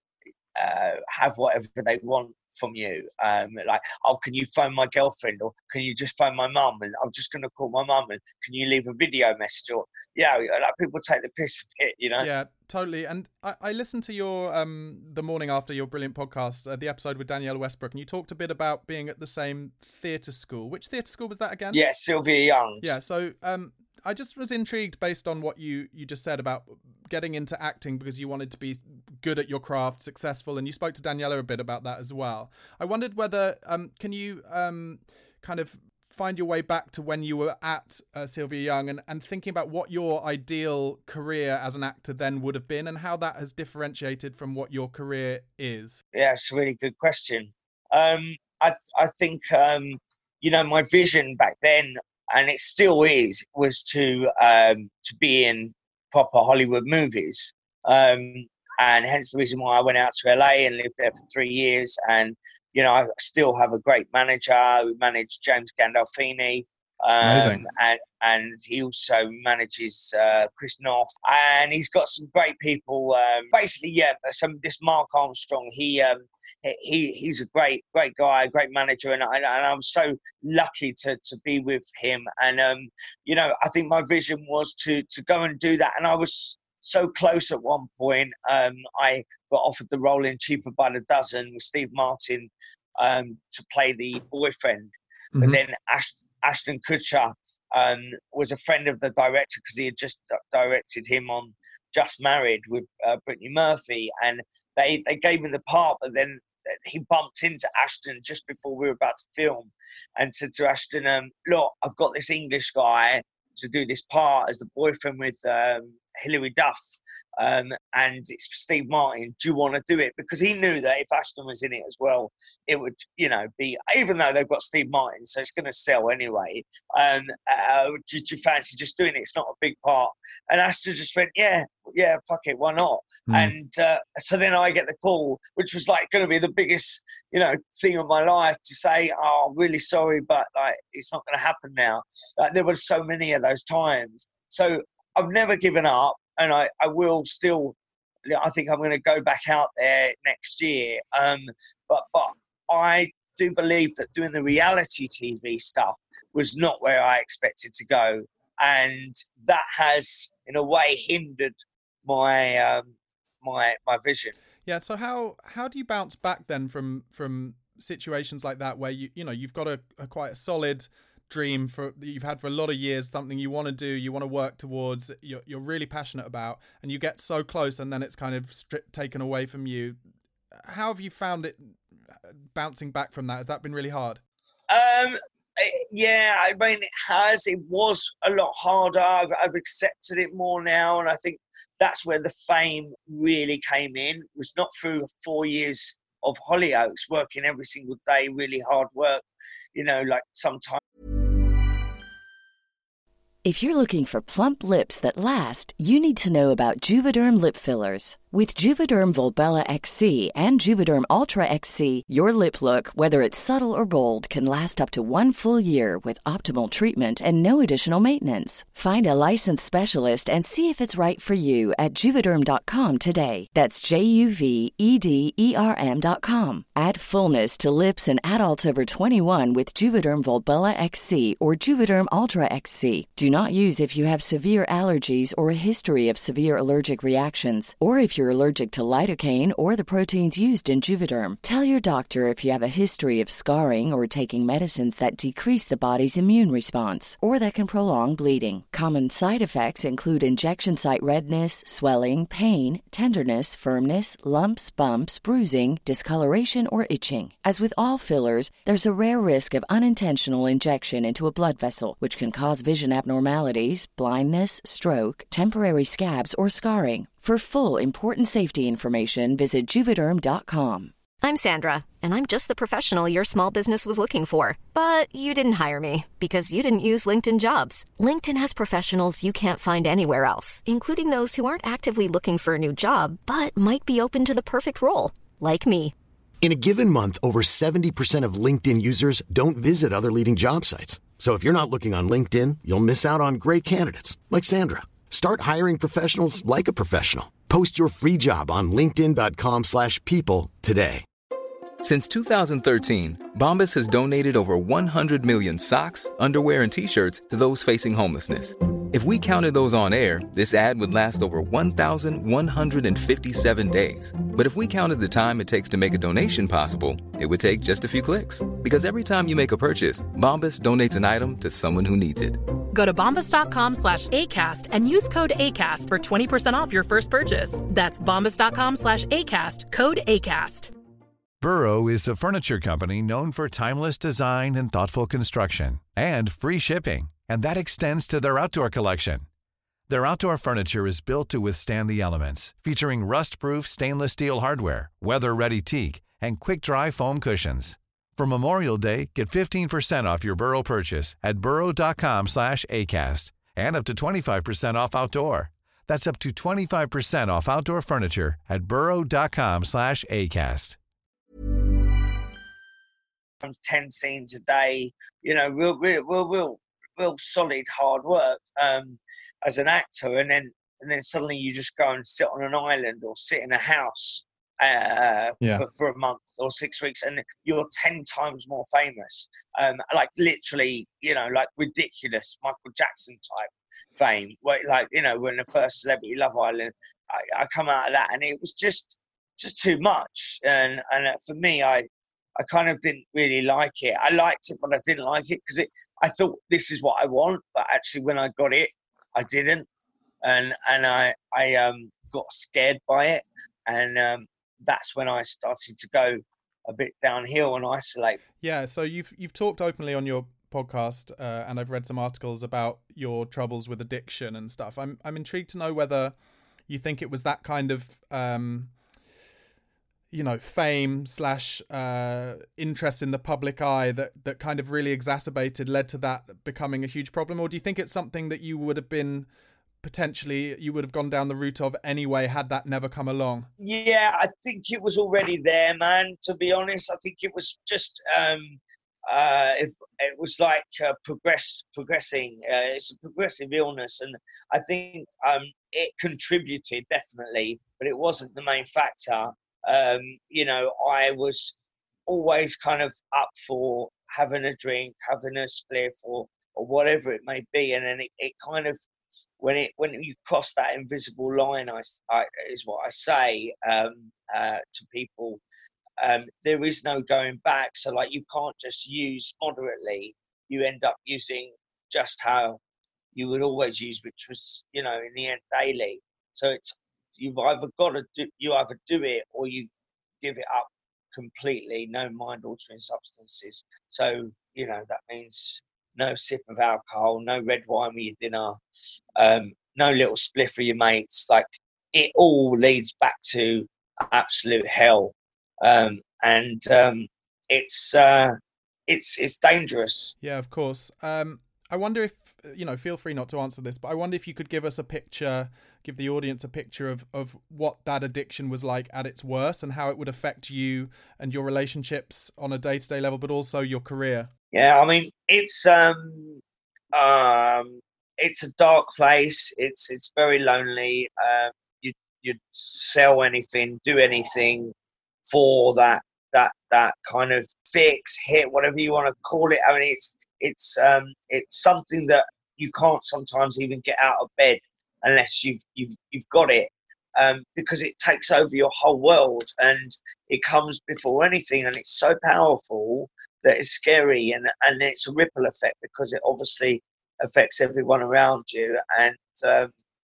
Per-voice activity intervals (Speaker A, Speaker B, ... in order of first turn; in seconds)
Speaker A: 0.6-12.3, 21.7-23.0, 46.1-116.8, 117.4-147.8, 148.3-164.3, 184.7-199.2, 199.8-200.8, 363.4-399.7, 400.2-408.2, 433.6-451.6, 452.1-458.8, 459.4-465.4, 466.0-472.6, 473.1-479.7, 480.2-488.6, 489.2-498.4, 498.9-500.1, 514.5-516.4, 516.9-524.7, 525.3-549.7
Speaker B: 12.2-21.8, 22.8-46.0, 67.2-67.6, 133.3-133.5, 164.7-180.0, 180.6-181.7, 182.5-184.2, 408.4-416.1, 416.7-418.7, 420.1-429.3, 429.8-433.5, 500.2-514.3
Speaker C: 203.4-270.9
Speaker D: 271.2-285.9
Speaker E: 286.4-301.0
Speaker F: 301.8-322.4
Speaker G: 322.7-330.7
Speaker H: 331.4-339.2, 339.9-360.8